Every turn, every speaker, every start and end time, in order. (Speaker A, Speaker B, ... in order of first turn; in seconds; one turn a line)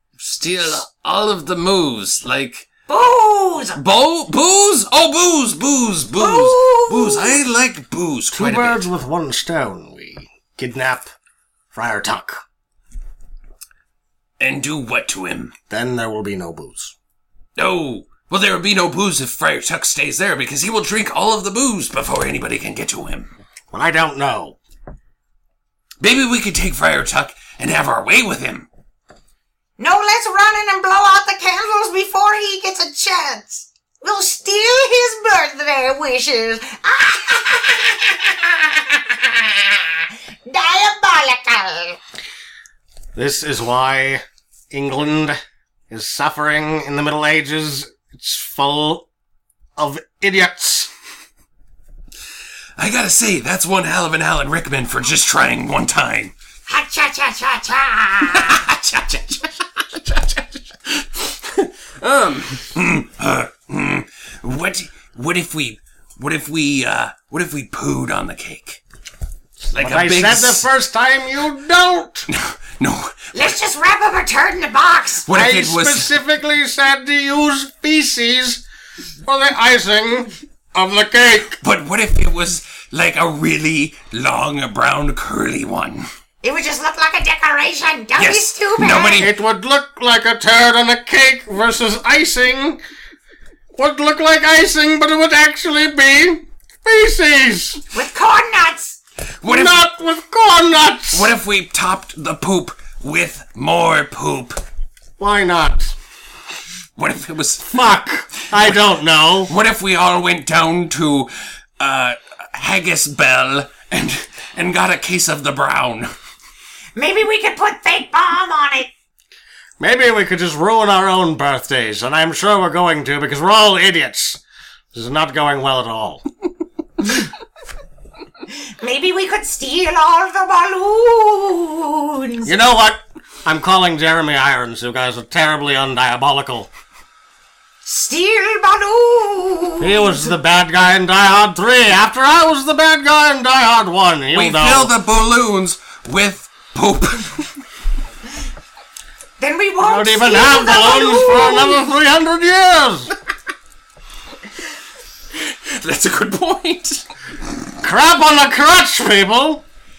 Speaker A: 0.2-2.7
Speaker B: 2.9-3.8
Speaker A: 3.8-8.9
Speaker B: 6.2-7.4
Speaker C: 8.3-11.1
Speaker C: 11.7-12.4
Speaker A: 14.4-15.5
Speaker C: 15.7-16.9
Speaker A: 17.6-23.3
Speaker C: 23.7-24.6
Speaker A: 26.0-28.7
Speaker B: 29.8-39.9
Speaker B: 40.5-42.0
Speaker C: 43.1-45.4
Speaker C: 45.9-49.1
Speaker C: 49.8-50.9
Speaker A: 52.8-56.3
Speaker B: 56.7-58.6
Speaker A: 58.2-68.8
Speaker A: 69.7-70.7
Speaker C: 69.8-72.3
Speaker A: 72.3-73.6
Speaker B: 73.3-75.3
Speaker A: 75.2-76.1
Speaker C: 75.3-78.6
Speaker C: 79.3-81.6
Speaker A: 81.6-86.1
Speaker B: 86.4-89.3
Speaker A: 88.2-89.3
Speaker C: 89.2-92.8
Speaker C: 93.8-97.8
Speaker B: 97.9-99.0
Speaker A: 99.4-99.8
Speaker C: 99.4-101.3
Speaker A: 101.1-104.6
Speaker C: 105.2-106.0
Speaker A: 107.0-107.9
Speaker C: 107.7-109.5
Speaker A: 108.5-108.8
Speaker A: 109.4-116.1
Speaker B: 117.0-118.9
Speaker C: 119.8-124.4
Speaker C: 124.9-126.2
Speaker B: 128.8-132.5
Speaker C: 132.4-136.7
Speaker B: 137.9-140.2
Speaker C: 139.8-144.9
Speaker A: 144.3-147.6
Speaker B: 149.4-151.8
Speaker C: 149.8-153.1
Speaker A: 155.3-157.1
Speaker C: 157.8-159.6